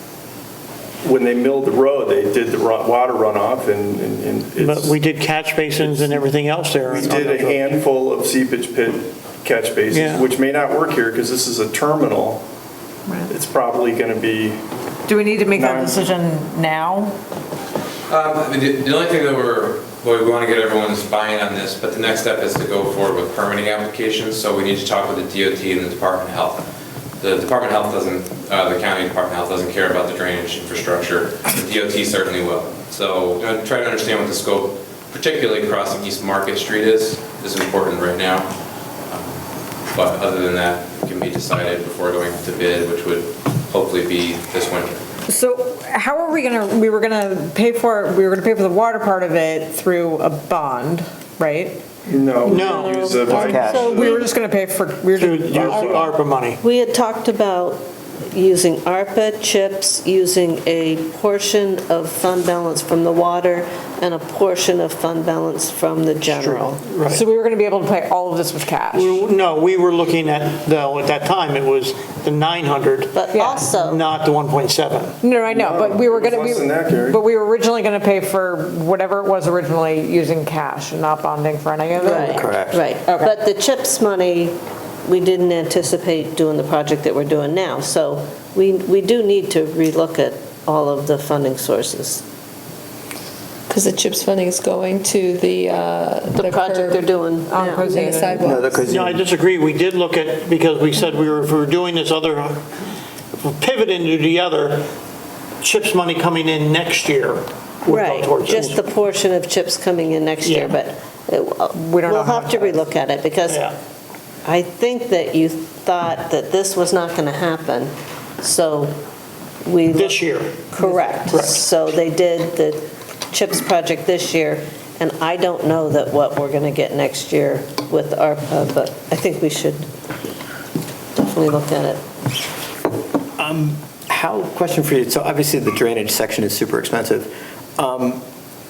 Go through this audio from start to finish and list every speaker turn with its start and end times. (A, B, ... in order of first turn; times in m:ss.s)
0:01.0-0:05.0 A
0:04.6-0:07.7 B
0:05.8-0:06.3 A
0:06.8-0:12.4 A
0:09.9-0:10.3 B
0:13.3-0:14.6 A
0:15.1-0:17.2 C
0:15.5-0:16.1 A
0:18.1-0:26.6 D
0:27.2-0:38.5 D
0:39.9-0:45.0 D
0:45.3-0:51.8 C
0:52.0-0:54.3 A
0:52.5-0:53.7 B
0:52.5-0:54.2 E
0:53.3-0:53.9 F
0:54.0-0:56.0 C
0:55.1-0:56.6 B
0:55.6-0:56.1 A
0:56.6-1:06.8 E
1:06.3-1:07.2 B
1:07.1-1:09.2 C
1:08.9-1:13.2 B
1:13.1-1:14.0 E
1:13.3-1:13.7 C
1:13.8-1:15.2 B
1:15.2-1:22.5 C
1:15.5-1:17.2 A
1:22.0-1:32.2 E
1:22.2-1:22.9 F
1:23.0-1:23.4 C
1:33.7-1:37.1 G
1:36.3-1:38.0 E
1:37.4-1:38.5 C
1:37.8-1:38.9 G
1:38.4-1:39.2 F
1:38.9-1:42.7 B
1:43.4-1:44.9 B
1:45.6-1:48.8 B
1:47.9-1:53.7 E
1:50.4-1:50.8 B
1:51.7-1:52.5 C
1:52.1-1:52.4 B
1:53.4-1:53.7 B
1:54.4-1:59.0 E
1:59.6-2:09.9 E
1:59.9-2:01.6 B
2:11.2-2:12.0 E
2:13.4-2:18.2 F